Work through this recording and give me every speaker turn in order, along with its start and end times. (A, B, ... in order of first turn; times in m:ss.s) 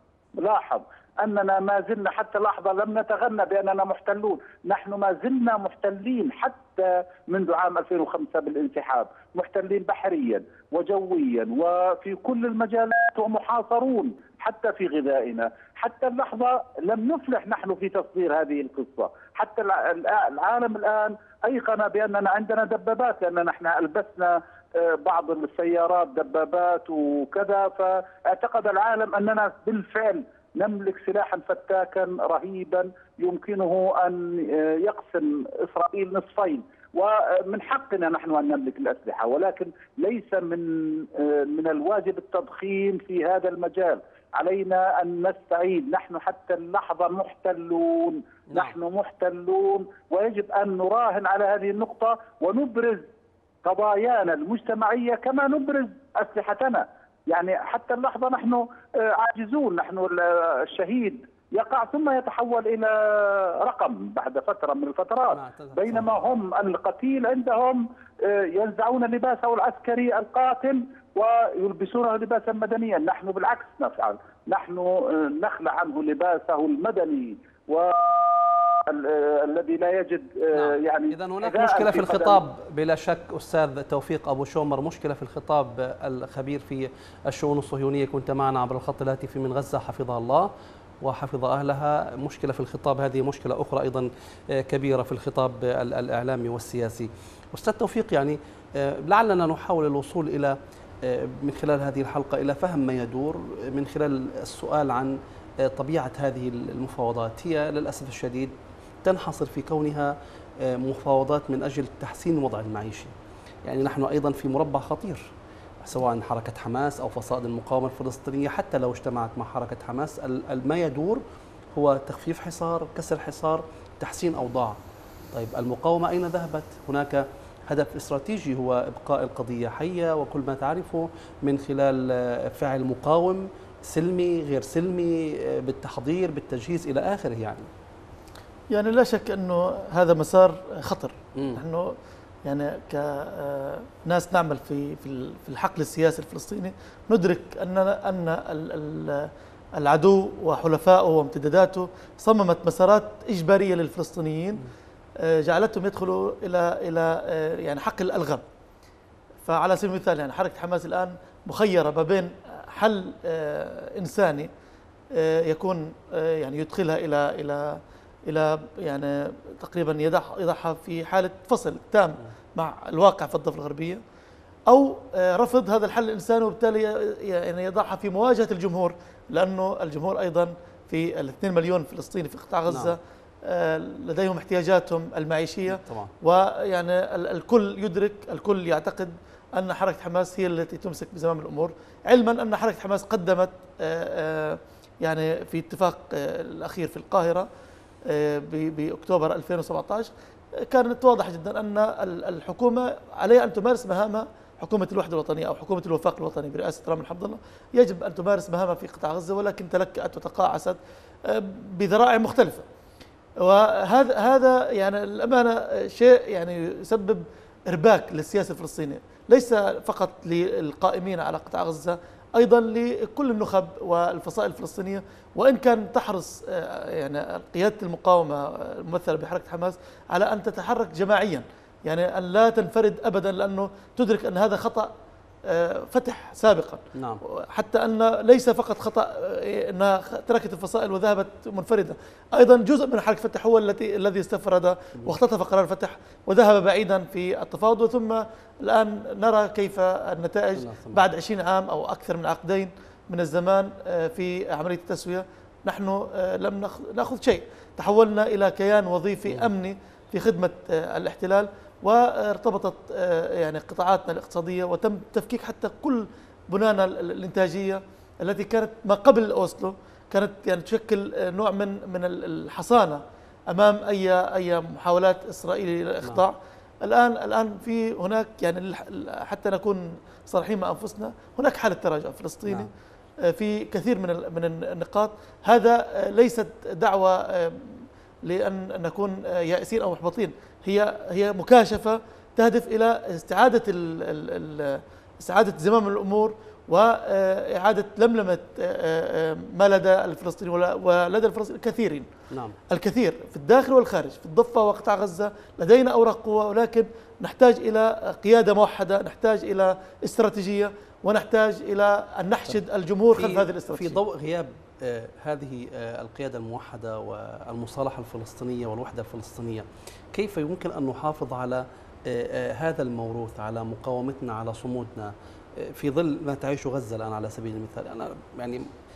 0:00.4-0:53.0 A
0:53.6-1:22.4 A
1:05.3-1:06.1 B
1:20.5-1:30.5 B
1:31.0-1:53.1 B
1:53.6-1:55.3 B
1:55.8-2:01.2 B
2:01.8-2:04.8 B
2:05.3-2:17.7 B
2:18.7-2:21.9 C
2:21.4-2:21.6 B
2:22.5-2:34.6 C
2:35.2-2:38.4 C
2:39.4-2:44.5 C
2:45.1-2:54.0 C
2:54.7-3:17.5 C
3:02.7-3:03.0 B
3:05.7-3:06.1 B
3:18.1-3:20.1 C
3:20.7-3:32.6 C
3:33.4-3:54.9 C
3:55.5-4:42.7 C
3:57.0-3:57.2 B
4:10.6-4:11.0 B
4:43.2-5:02.1 C
5:02.3-5:02.6 B
5:02.7-5:14.0 C
5:13.1-5:28.7 B